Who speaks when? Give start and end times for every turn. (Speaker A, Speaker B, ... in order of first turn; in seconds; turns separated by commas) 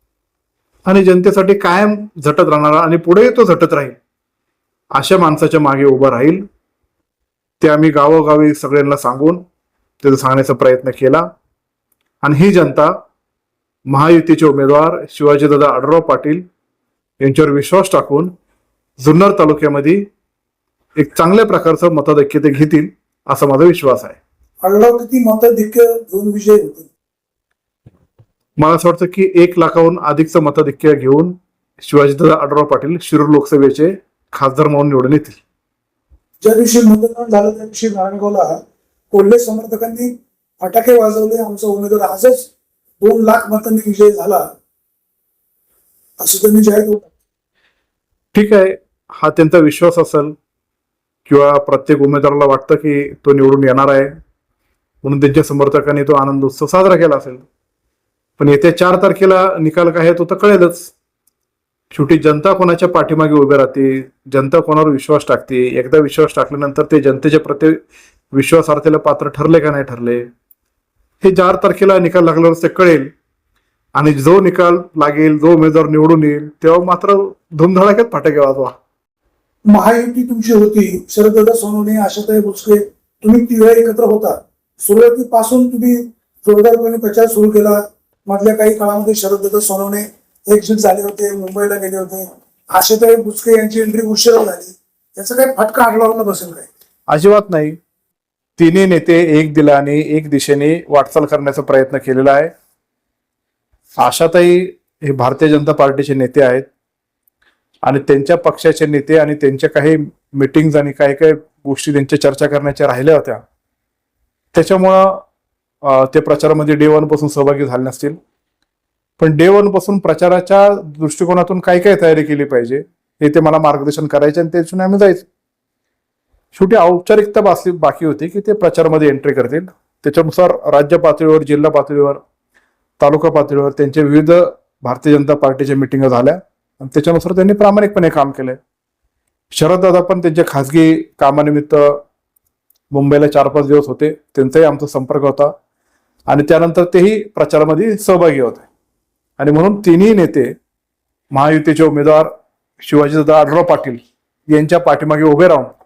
Speaker A: 0.8-3.9, Speaker A: 4.9-6.4, Speaker A: 7.6-9.4, Speaker A: 10.0-11.2, Speaker A: 12.2-12.9, Speaker A: 13.9-16.4, Speaker A: 17.2-18.3, Speaker A: 19.0-20.0, Speaker A: 21.0-24.2, Speaker B: 24.6-26.9, Speaker A: 28.6-35.4, Speaker B: 36.4-38.6, Speaker B: 39.1-44.5, Speaker B: 46.2-47.1, Speaker A: 48.3-50.3, Speaker A: 51.3-54.1, Speaker A: 55.0-57.4, Speaker A: 58.4-60.9, Speaker A: 61.9-67.8, Speaker A: 68.3-70.2, Speaker A: 71.2-73.1, Speaker A: 73.9-78.7, Speaker B: 79.7-96.7, Speaker A: 97.1-97.8, Speaker A: 98.6-102.5, Speaker A: 104.0-106.7, Speaker A: 107.8-113.4, Speaker A: 114.5-115.2, Speaker A: 115.8-118.2, Speaker A: 119.2-125.2, Speaker A: 126.5-132.2, Speaker A: 133.0-138.6, Speaker A: 139.5-142.0, Speaker A: 142.9-145.5, Speaker A: 146.3-148.7, Speaker A: 149.4-150.5, Speaker A: 151.3-152.3, Speaker A: 152.8-155.7